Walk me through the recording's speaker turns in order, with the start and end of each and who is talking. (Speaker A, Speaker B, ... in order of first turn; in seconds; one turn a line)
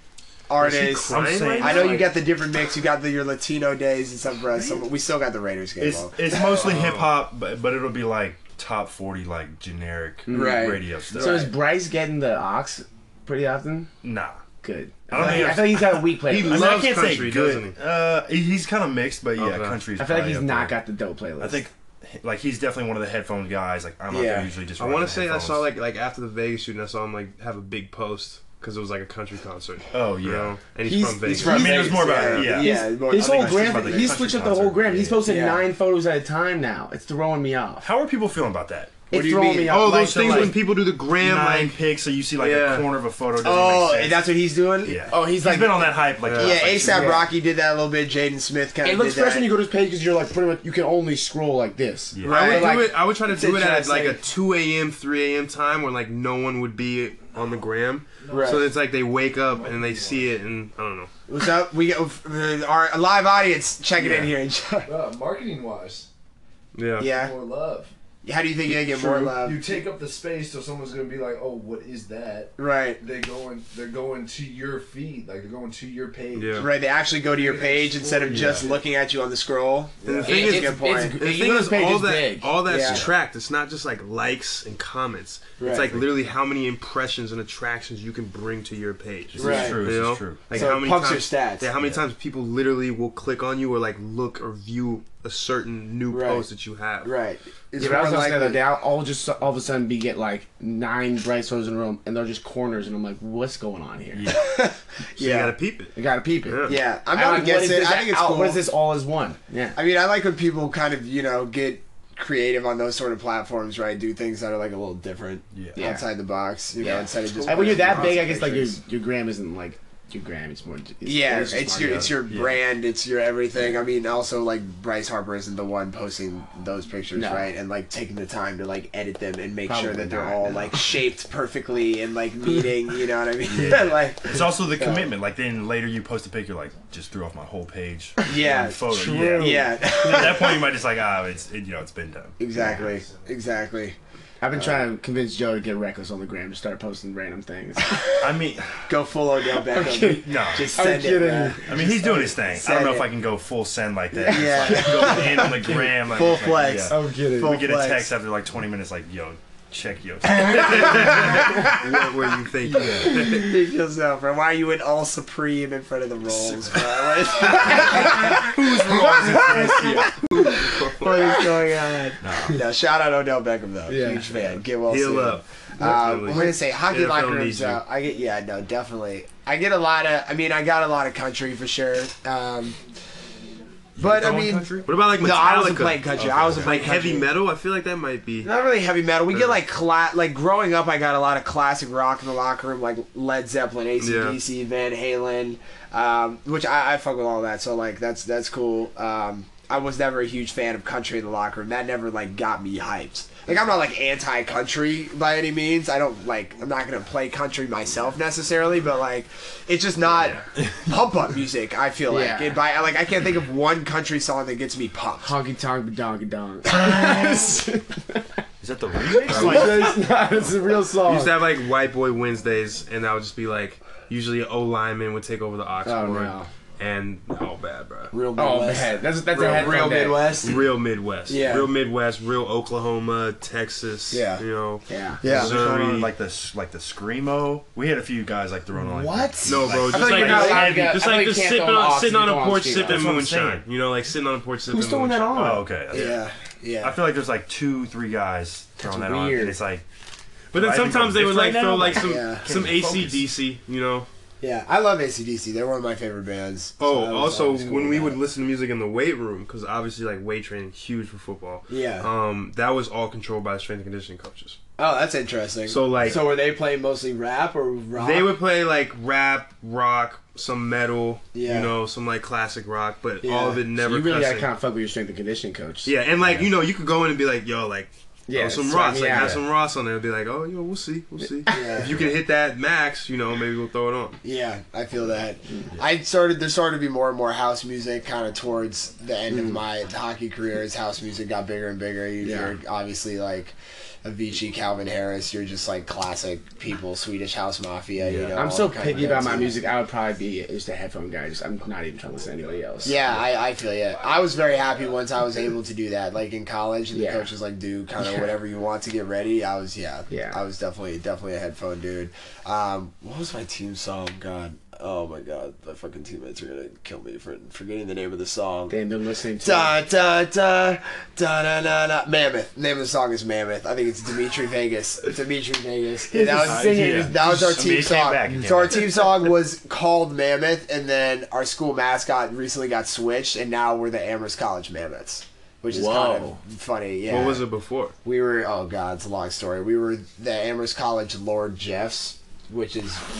Speaker A: 0.5-6.9
Speaker B: 0.6-1.9
Speaker C: 1.1-2.0
Speaker D: 1.4-2.1
Speaker C: 5.8-11.5
Speaker B: 6.6-7.1
Speaker D: 10.2-13.9
Speaker A: 10.3-11.3
Speaker C: 14.0-14.4
Speaker D: 14.6-16.7
Speaker C: 15.1-20.8
Speaker B: 16.3-17.8
Speaker B: 19.4-19.8
Speaker D: 20.0-21.6
Speaker C: 21.4-25.6
Speaker A: 24.1-24.5
Speaker B: 24.8-31.7
Speaker C: 29.9-30.5
Speaker D: 30.8-37.9
Speaker A: 31.3-34.1
Speaker C: 31.4-35.2
Speaker A: 35.2-35.6
Speaker C: 37.8-39.0
Speaker D: 39.1-40.5
Speaker A: 39.1-39.8
Speaker B: 39.7-41.8
Speaker C: 40.1-44.3
Speaker B: 42.4-42.9
Speaker A: 43.4-45.1
Speaker C: 44.8-47.2
Speaker D: 45.1-46.1
Speaker B: 46.2-46.7
Speaker A: 46.4-49.5
Speaker D: 46.9-47.3
Speaker D: 48.8-53.0
Speaker C: 52.1-52.6
Speaker A: 52.2-52.8
Speaker B: 52.2-61.1
Speaker A: 53.3-54.2
Speaker E: 58.2-58.7
Speaker A: 58.3-58.6
Speaker E: 59.5-60.3
Speaker A: 61.3-64.9
Speaker E: 64.8-66.1
Speaker B: 66.7-67.1
Speaker A: 67.0-67.3
Speaker E: 67.0-67.9
Speaker A: 68.2-69.8
Speaker E: 68.7-78.8
Speaker A: 72.6-73.0
Speaker B: 76.3-76.7
Speaker A: 76.6-81.1
Speaker C: 78.3-78.6
Speaker E: 80.0-80.5
Speaker B: 80.0-97.1
Speaker D: 80.2-82.5
Speaker A: 82.7-83.1
Speaker C: 82.8-83.1
Speaker A: 85.6-86.0
Speaker C: 89.3-90.4
Speaker A: 89.4-89.9
Speaker A: 90.5-91.7
Speaker A: 96.1-96.5
Speaker A: 97.0-98.6
Speaker D: 97.8-104.2
Speaker C: 104.1-104.5
Speaker A: 104.3-105.5
Speaker B: 105.2-105.9
Speaker D: 106.0-109.8
Speaker B: 106.5-106.8
Speaker A: 106.6-108.6
Speaker A: 109.8-118.8
Speaker C: 115.5-115.8
Speaker D: 115.8-116.1
Speaker D: 116.8-122.2
Speaker C: 117.7-118.0
Speaker A: 121.0-135.1
Speaker C: 121.7-122.6
Speaker D: 127.1-127.5
Speaker D: 129.7-130.7
Speaker C: 133.5-142.4
Speaker A: 138.2-140.7
Speaker D: 138.9-140.4
Speaker A: 142.4-143.9
Speaker D: 142.6-142.9
Speaker D: 144.4-148.0
Speaker A: 144.6-144.8
Speaker C: 148.2-148.7
Speaker A: 148.9-153.1
Speaker D: 149.7-151.7
Speaker C: 150.2-150.7
Speaker C: 151.7-161.5
Speaker D: 154.1-155.9
Speaker A: 154.2-158.1
Speaker D: 156.7-157.6
Speaker B: 160.4-163.5
Speaker A: 160.5-161.3
Speaker D: 161.3-161.6
Speaker C: 162.7-163.2
Speaker A: 162.7-168.6
Speaker C: 166.3-166.9
Speaker D: 167.6-169.9
Speaker B: 167.6-171.4
Speaker C: 168.6-170.1
Speaker A: 169.2-182.8
Speaker C: 172.2-172.6
Speaker D: 173.9-174.3
Speaker B: 174.9-177.8
Speaker A: 184.0-187.3
Speaker C: 184.0-184.9
Speaker B: 184.8-188.5
Speaker C: 186.1-186.9
Speaker A: 188.4-215.3
Speaker B: 194.0-194.4
Speaker D: 212.1-212.6
Speaker D: 215.2-218.4
Speaker C: 218.6-220.0
Speaker D: 219.1-221.4
Speaker A: 219.3-219.9
Speaker B: 221.0-228.1
Speaker D: 225.8-226.5
Speaker A: 228.1-230.7
Speaker D: 228.3-230.3
Speaker B: 229.3-236.1
Speaker A: 231.3-231.7
Speaker A: 234.1-234.4
Speaker D: 234.9-235.2
Speaker A: 235.2-235.6
Speaker C: 235.2-241.0
Speaker A: 238.7-240.7
Speaker B: 239.4-245.6
Speaker D: 239.9-243.1
Speaker C: 242.8-243.6
Speaker D: 244.7-245.7
Speaker C: 245.3-246.2
Speaker A: 245.9-247.0
Speaker C: 246.8-249.8
Speaker D: 248.8-249.6
Speaker B: 250.5-254.1
Speaker C: 250.5-253.2
Speaker A: 251.9-252.4
Speaker A: 254.4-258.2
Speaker B: 256.8-264.6
Speaker A: 261.7-262.1
Speaker A: 264.8-268.3
Speaker B: 265.7-266.2
Speaker B: 267.9-274.5
Speaker A: 271.3-271.7
Speaker A: 273.2-273.6
Speaker D: 273.8-275.9
Speaker B: 275.8-284.2
Speaker C: 276.2-276.5
Speaker D: 278.3-279.4
Speaker C: 279.1-279.4
Speaker A: 281.5-282.1
Speaker D: 281.5-281.8
Speaker A: 284.2-299.6
Speaker D: 292.2-292.6
Speaker D: 298.3-303.1
Speaker A: 302.8-318.7
Speaker D: 306.9-307.3
Speaker D: 310.1-310.4
Speaker D: 318.7-319.7
Speaker A: 319.4-337.4
Speaker D: 326.1-327.3
Speaker C: 326.4-328.9
Speaker D: 335.7-336.4
Speaker B: 337.1-337.9
Speaker A: 338.0-343.0